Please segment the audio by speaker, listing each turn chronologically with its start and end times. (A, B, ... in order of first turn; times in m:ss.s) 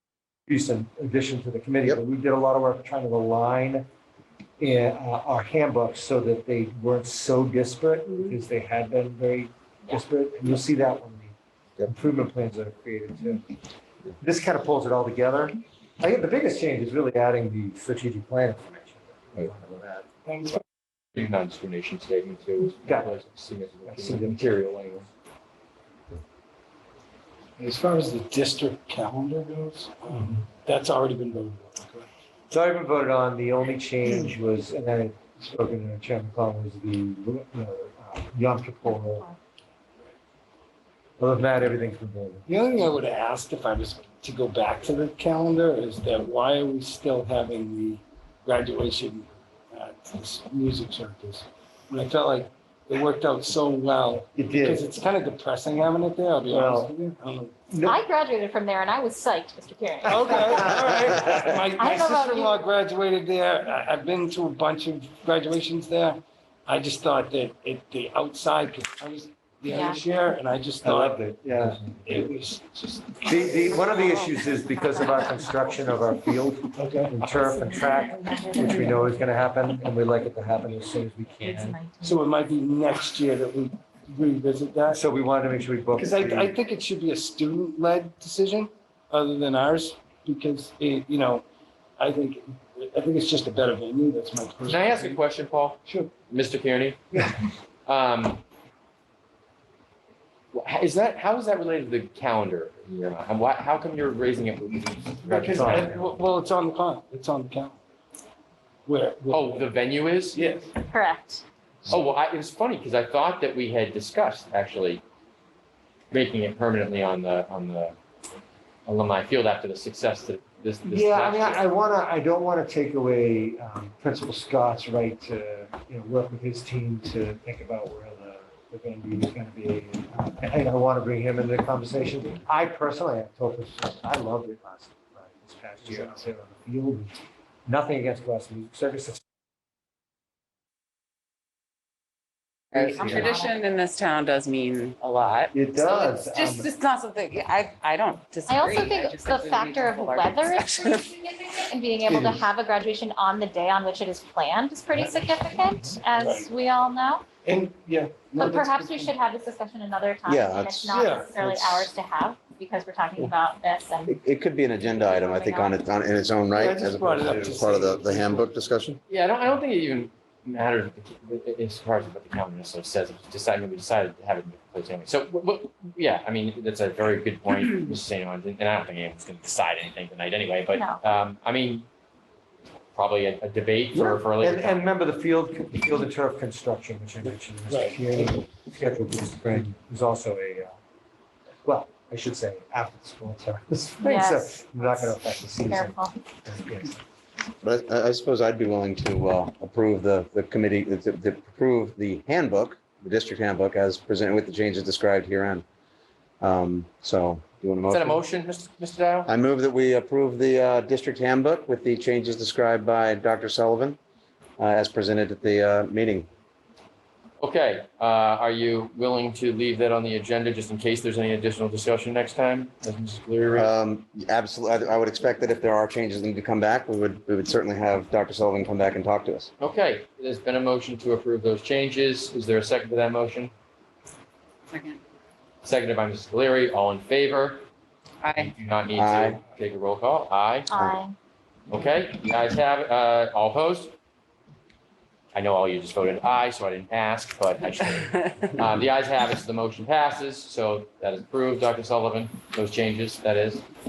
0:00.5-0:03.9 A
0:04.6-0:13.4 A
0:14.2-0:20.1 A
0:20.2-0:20.6 B
0:21.2-0:25.1 C
0:22.8-0:23.1 A
0:23.8-0:24.4 A
0:27.6-0:32.1 B
0:32.5-0:39.3 A
0:38.9-0:39.4 D
0:41.2-0:42.5 A
0:42.5-0:57.5 B
0:54.4-0:54.9 A
0:56.5-0:56.9 A
0:57.7-0:58.0 A
0:57.8-1:00.8 D
1:00.1-1:13.7 B
1:00.2-1:01.0 A
1:01.8-1:02.6 D
1:09.7-1:10.0 D
1:10.8-1:12.0 A
1:13.2-1:21.8 A
1:13.8-1:15.5 D
1:16.8-1:17.2 B
1:17.3-1:19.2 D
1:21.3-1:22.2 D
1:22.0-1:25.0 B
1:24.9-1:26.5 A
1:25.9-1:31.4 B
1:32.0-1:35.2 B
1:34.7-1:37.2 C
1:35.8-1:36.1 B
1:37.9-1:38.4 C
1:40.5-1:46.1 C
1:45.3-1:47.8 B
1:45.6-1:45.9 A
1:48.9-1:49.6 B
1:49.3-1:50.4 C
1:50.3-1:50.7 B
1:50.9-1:51.4 D
1:51.9-1:55.0 C
1:56.1-1:58.0 C
1:58.9-2:01.6 C
2:00.8-2:19.2 A
2:22.7-2:31.0 E
2:22.8-2:23.3 A
2:23.1-2:23.6 D
2:25.5-2:26.7 A
2:28.5-2:37.2 D
2:36.1-2:36.5 B
2:37.4-2:39.2 B
2:38.4-2:44.2 D
2:40.3-2:41.0 F
2:40.9-2:41.9 B
2:44.1-2:49.0 F
2:44.9-2:45.8 D
2:46.5-2:48.5 B
2:49.1-3:01.9 C
3:00.7-3:01.0 D
3:03.0-3:04.9 C
3:03.9-3:10.8 A
3:07.7-3:08.3 B
3:11.6-3:17.0 A
3:14.0-3:16.1 D
3:17.6-3:25.6 F
3:26.4-3:28.2 F
3:27.9-3:29.3 C
3:29.3-3:34.0 F
3:34.6-3:36.3 F
3:37.4-3:43.7 C
3:43.5-3:49.5 F
3:49.6-3:53.5 C
3:54.7-3:55.0 E
3:55.6-3:57.7 C
3:58.2-3:58.5 E
3:58.4-4:00.7 C
3:59.0-3:59.4 F
4:00.7-4:01.2 D
4:01.7-4:03.9 C
4:05.3-4:13.6 C